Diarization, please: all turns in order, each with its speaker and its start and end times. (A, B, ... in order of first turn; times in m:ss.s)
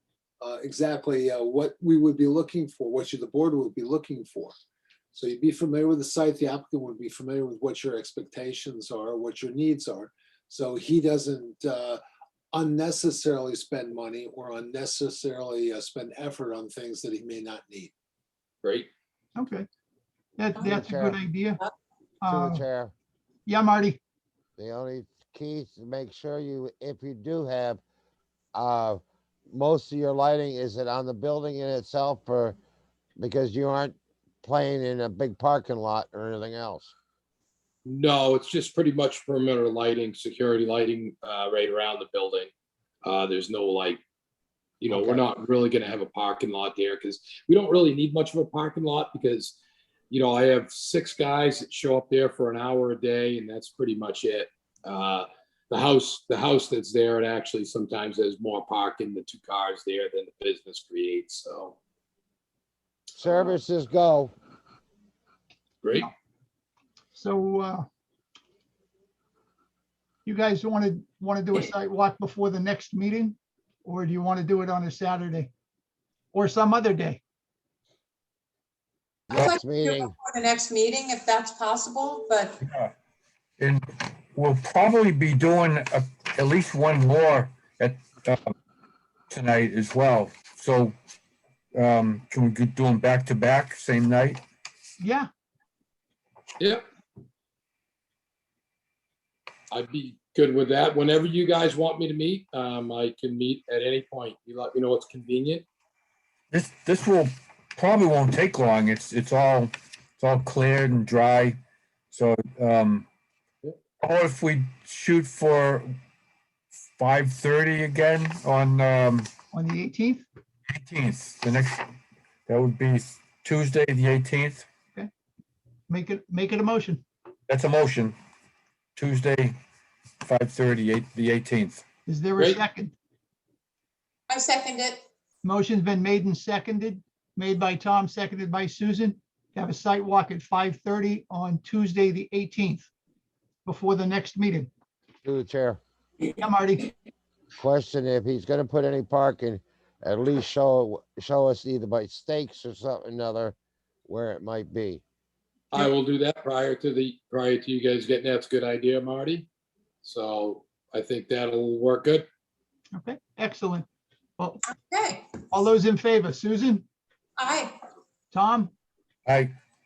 0:00.4-0:04.5 A
0:05.1-0:12.0 A
0:12.5-0:17.9 A
0:18.6-0:18.9 B
0:19.4-0:19.7 C
0:20.4-0:21.6 C
0:20.6-0:21.2 D
0:22.2-0:22.6 C
0:22.2-0:22.9 D
0:23.4-0:24.0 C
0:24.6-0:27.8 D
0:28.5-0:32.6 D
0:33.2-0:36.9 D
0:37.8-0:42.5 B
0:43.0-0:44.0 B
0:44.8-0:49.6 B
0:44.9-0:45.2 D
0:50.1-1:01.8 B
1:03.1-1:04.3 D
1:05.8-1:06.1 B
1:07.1-1:07.9 C
1:10.2-1:15.5 C
1:16.3-1:17.2 C
1:19.3-1:20.1 D
1:19.3-1:22.6 E
1:22.6-1:22.9 F
1:24.3-1:28.4 F
1:29.3-1:30.9 F
1:31.7-1:34.4 F
1:35.0-1:35.3 C
1:39.7-1:45.6 B
1:46.5-1:51.6 F
1:52.1-1:53.1 F
1:54.0-1:55.9 F
1:57.0-1:59.3 F
1:59.5-2:00.2 C
2:00.7-2:01.8 F
2:02.5-2:04.6 F
2:05.9-2:07.0 C
2:07.5-2:08.1 F
2:09.0-2:09.6 F
2:10.2-2:11.8 F
2:12.0-2:12.9 C
2:14.3-2:15.0 E
2:15.4-2:22.9 C
2:23.6-2:24.7 C
2:25.2-2:25.8 D
2:26.2-2:26.9 C
2:27.6-2:33.5 D
2:34.0-2:35.0 D
2:35.7-2:39.5 B
2:40.0-2:42.2 B
2:42.9-2:43.8 C
2:44.7-2:45.4 E
2:45.5-2:46.8 C
2:47.4-2:47.8 E
2:48.3-2:48.7 C
2:49.2-2:49.5 F